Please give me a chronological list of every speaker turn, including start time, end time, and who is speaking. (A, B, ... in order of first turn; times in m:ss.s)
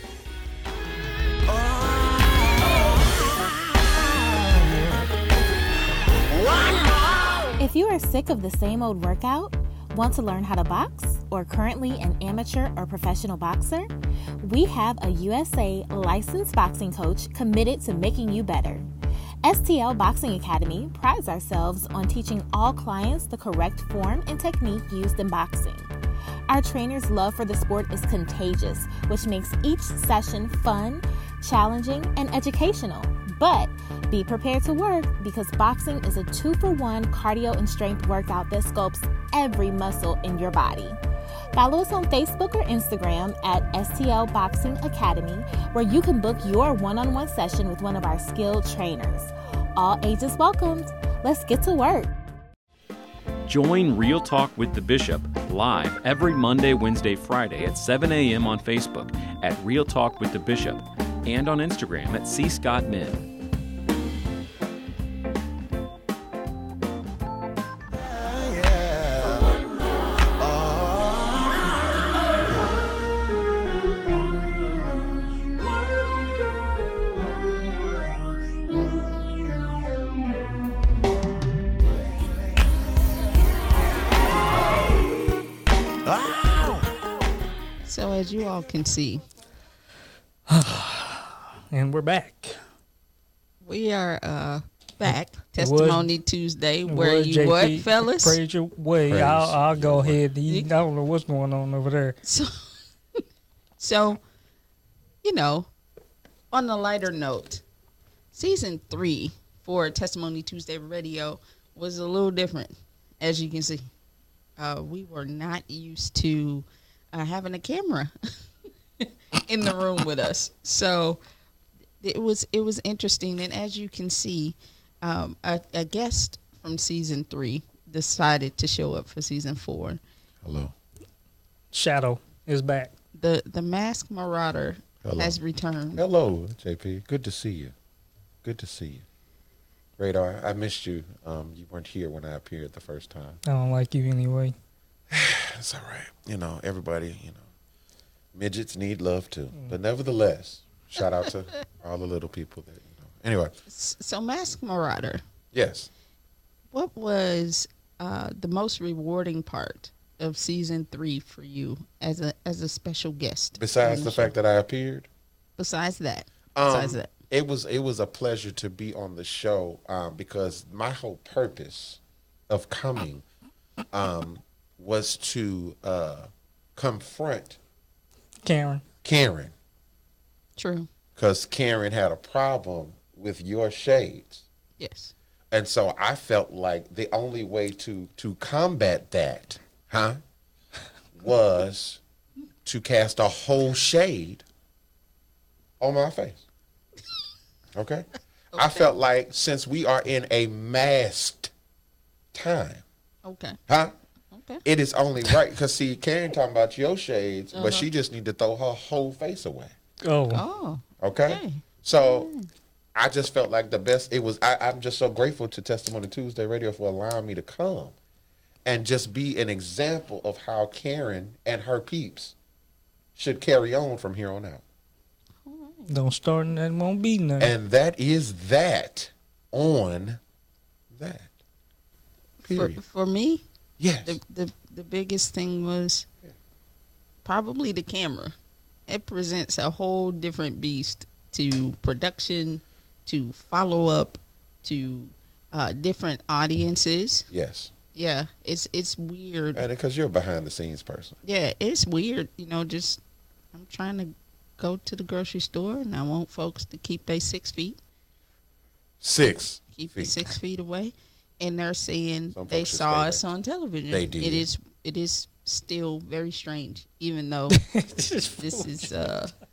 0:01.5-0:05.1 A
0:06.3-0:07.5 A
0:07.6-0:13.9 B
0:14.4-0:18.8 B
0:19.4-0:25.9 B
0:26.5-0:41.0 B
0:41.6-0:52.1 B
0:53.5-1:03.3 C
1:07.9-1:12.4 A
1:26.0-1:27.0 A
1:27.8-1:29.2 D
1:30.5-1:32.6 E
1:33.6-1:38.4 D
1:35.6-1:36.1 E
1:36.9-1:42.2 E
1:39.0-1:40.2 A
1:42.2-1:42.5 D
1:43.8-1:44.2 D
1:45.2-1:45.7 D
1:46.5-1:47.6 D
1:48.3-1:53.9 D
1:54.6-1:58.1 D
1:59.0-2:01.2 D
2:02.0-2:10.0 D
2:10.4-2:10.7 A
2:11.7-2:12.9 E
2:13.2-2:16.0 D
2:15.0-2:15.4 A
2:16.0-2:17.7 A
2:18.4-2:19.0 A
2:20.0-2:23.4 A
2:23.5-2:24.5 E
2:25.1-2:27.4 A
2:28.3-2:33.6 A
2:33.7-2:35.2 D
2:35.5-2:35.9 A
2:36.7-2:44.3 D
2:43.6-2:45.1 A
2:45.6-2:47.1 D
2:46.6-2:53.2 A
2:53.9-2:57.6 A
2:58.4-2:58.8 E
2:59.0-2:59.5 A
3:00.6-3:00.9 D
3:01.2-3:04.4 A
3:04.8-3:05.1 D
3:05.5-3:10.2 A
3:11.2-3:12.0 A
3:12.6-3:14.4 A
3:15.8-3:16.4 A
3:17.7-3:21.5 A
3:18.5-3:19.0 D
3:22.3-3:22.8 A
3:23.2-3:23.6 D
3:23.7-3:23.9 A
3:24.3-3:24.6 D
3:24.6-3:29.8 A
3:27.5-3:27.9 D
3:30.0-3:30.4 E
3:30.3-3:32.5 D
3:31.0-3:32.3 A
3:33.0-3:37.9 A
3:38.6-3:42.4 A
3:43.2-3:44.6 A
3:45.4-3:45.9 D
3:45.9-3:47.5 E
3:47.4-3:50.2 A
3:50.9-3:51.3 A
3:52.4-3:53.4 D
3:52.4-3:52.8 A
3:53.8-3:54.2 A
3:54.0-3:56.1 D
3:57.2-3:58.4 D
3:58.9-4:07.3 D
4:07.3-4:07.7 A
4:07.9-4:09.6 D
4:09.6-4:11.2 A
4:11.2-4:13.0 D
4:13.5-4:17.8 D
4:19.0-4:20.3 A
4:19.8-4:27.6 D
4:22.3-4:23.2 A
4:23.9-4:24.5 A
4:27.6-4:28.9 E
4:28.4-4:29.3 D